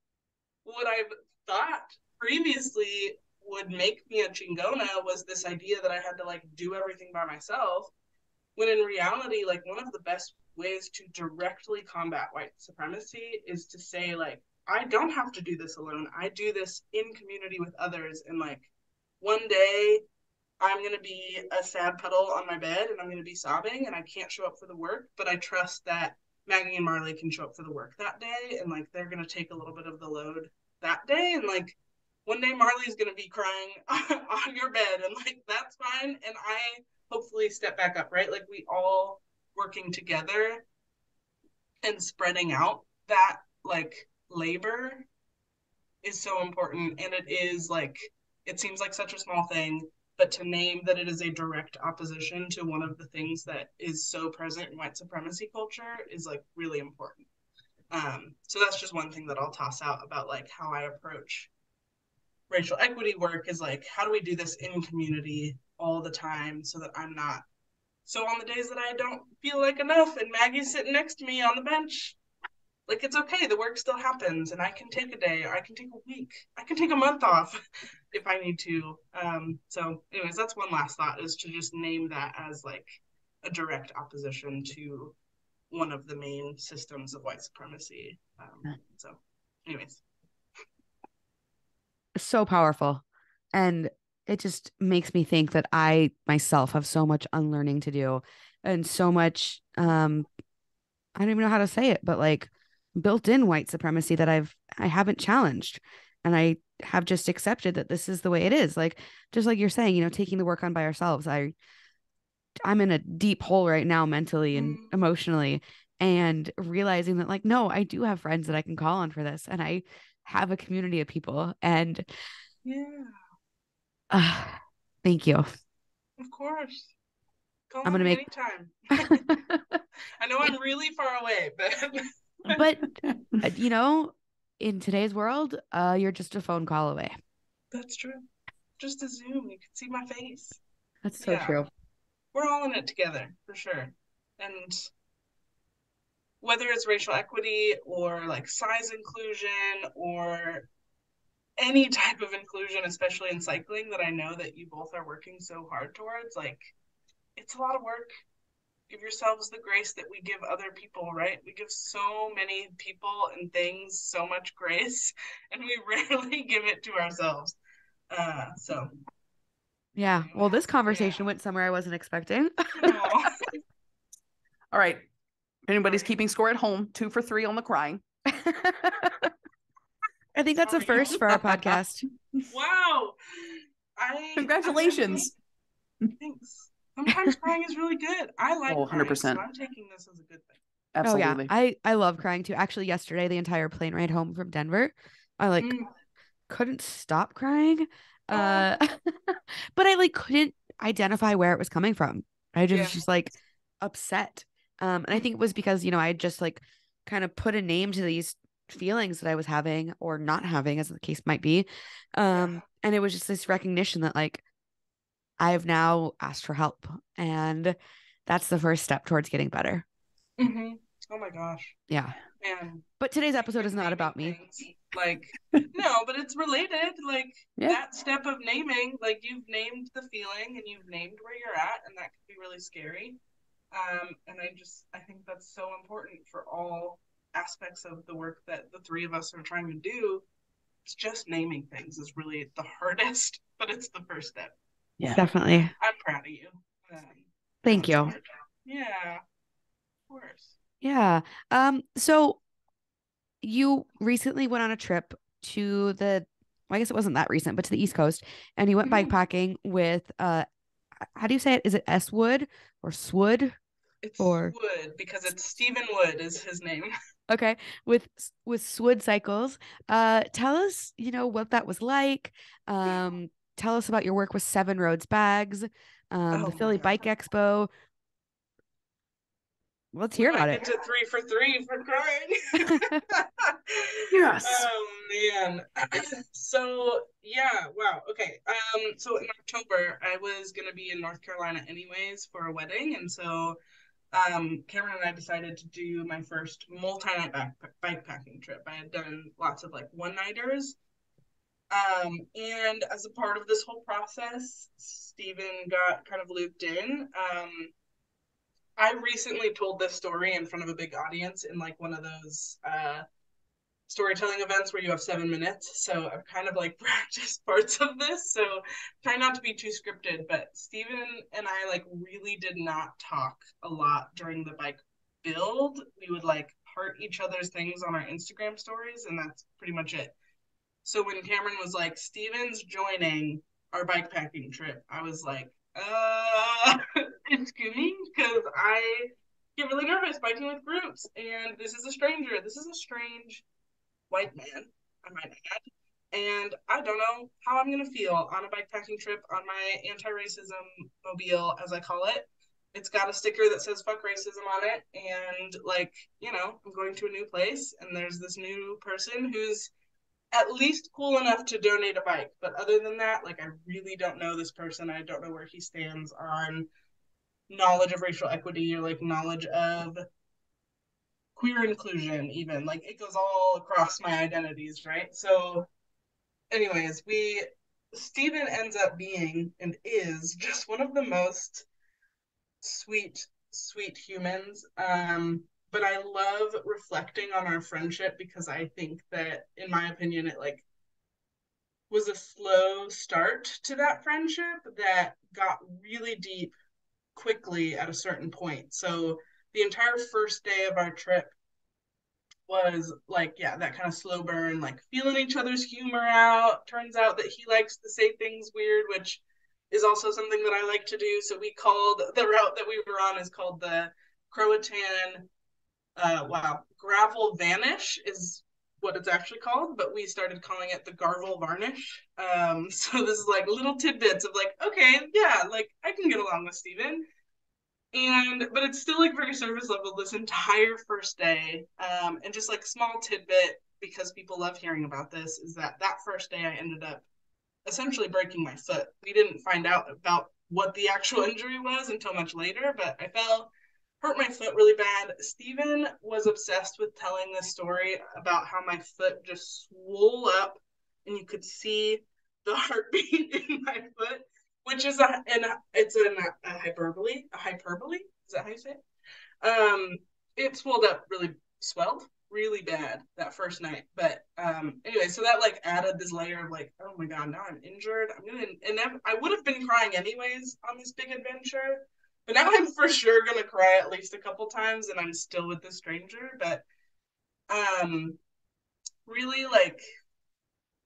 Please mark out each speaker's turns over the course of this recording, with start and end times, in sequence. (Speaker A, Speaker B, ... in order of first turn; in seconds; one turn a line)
Speaker A: 0.7-7.9
Speaker A: 8.6-18.7
Speaker A: 19.2-20.0
Speaker A: 20.6-40.6
Speaker A: 41.8-45.1
Speaker A: 46.0-57.3
Speaker A: 57.9-61.5
Speaker A: 62.5-67.5
Speaker A: 68.0-72.2
Speaker A: 72.9-77.6
Speaker A: 78.1-85.2
Speaker A: 85.7-90.0
Speaker B: 92.2-100.3
Speaker B: 101.2-111.5
Speaker B: 112.6-122.1
Speaker A: 114.5-114.9
Speaker A: 122.7-123.2
Speaker B: 124.1-125.5
Speaker A: 126.2-126.9
Speaker A: 127.7-129.4
Speaker B: 127.8-128.2
Speaker B: 129.0-129.8
Speaker A: 130.2-132.6
Speaker B: 132.5-137.1
Speaker A: 137.7-138.3
Speaker A: 138.8-140.6
Speaker B: 141.0-141.7
Speaker A: 141.2-141.6
Speaker A: 142.3-144.9
Speaker A: 146.4-150.7
Speaker A: 151.6-156.7
Speaker A: 157.4-158.1
Speaker A: 158.9-167.6
Speaker A: 168.1-168.9
Speaker B: 170.0-173.1
Speaker A: 170.2-171.3
Speaker A: 172.8-173.5
Speaker C: 174.7-175.1
Speaker C: 175.7-178.0
Speaker A: 175.8-176.1
Speaker B: 178.3-179.1
Speaker B: 180.3-182.0
Speaker A: 180.6-181.2
Speaker C: 181.0-181.8
Speaker A: 182.5-185.3
Speaker C: 184.4-185.3
Speaker A: 186.2-190.6
Speaker C: 188.7-189.4
Speaker C: 190.9-191.5
Speaker B: 191.0-195.8
Speaker A: 195.6-195.9
Speaker B: 196.5-214.4
Speaker A: 198.3-198.7
Speaker A: 202.7-203.0
Speaker A: 212.3-212.6
Speaker B: 215.4-219.8
Speaker A: 220.4-221.8
Speaker B: 221.9-222.2
Speaker A: 222.4-222.8
Speaker B: 223.0-224.4
Speaker A: 223.4-233.2
Speaker A: 233.7-240.2
Speaker A: 240.8-244.5
Speaker B: 245.1-245.7
Speaker A: 245.8-249.2
Speaker B: 247.6-248.2
Speaker A: 250.1-250.5
Speaker B: 250.8-252.4
Speaker B: 253.4-260.4
Speaker A: 258.8-259.1
Speaker B: 261.1-263.6
Speaker A: 264.0-266.9
Speaker B: 264.2-264.5
Speaker B: 267.3-277.7
Speaker A: 276.3-277.0
Speaker B: 279.9-280.6
Speaker A: 280.2-293.6
Speaker B: 282.7-283.0
Speaker C: 284.1-284.7
Speaker A: 294.1-300.8
Speaker A: 301.7-307.7
Speaker A: 308.8-313.0
Speaker A: 313.9-330.1
Speaker A: 330.8-343.4
Speaker A: 344.1-359.7
Speaker A: 360.3-366.7
Speaker A: 367.5-370.0
Speaker A: 371.4-375.7
Speaker A: 376.5-381.7
Speaker A: 382.6-390.6
Speaker A: 391.9-396.6
Speaker A: 397.1-401.3
Speaker A: 402.5-415.3
Speaker A: 416.0-427.1
Speaker A: 427.9-437.1
Speaker A: 437.7-458.8
Speaker A: 459.4-476.6
Speaker A: 477.5-478.2
Speaker A: 479.1-479.8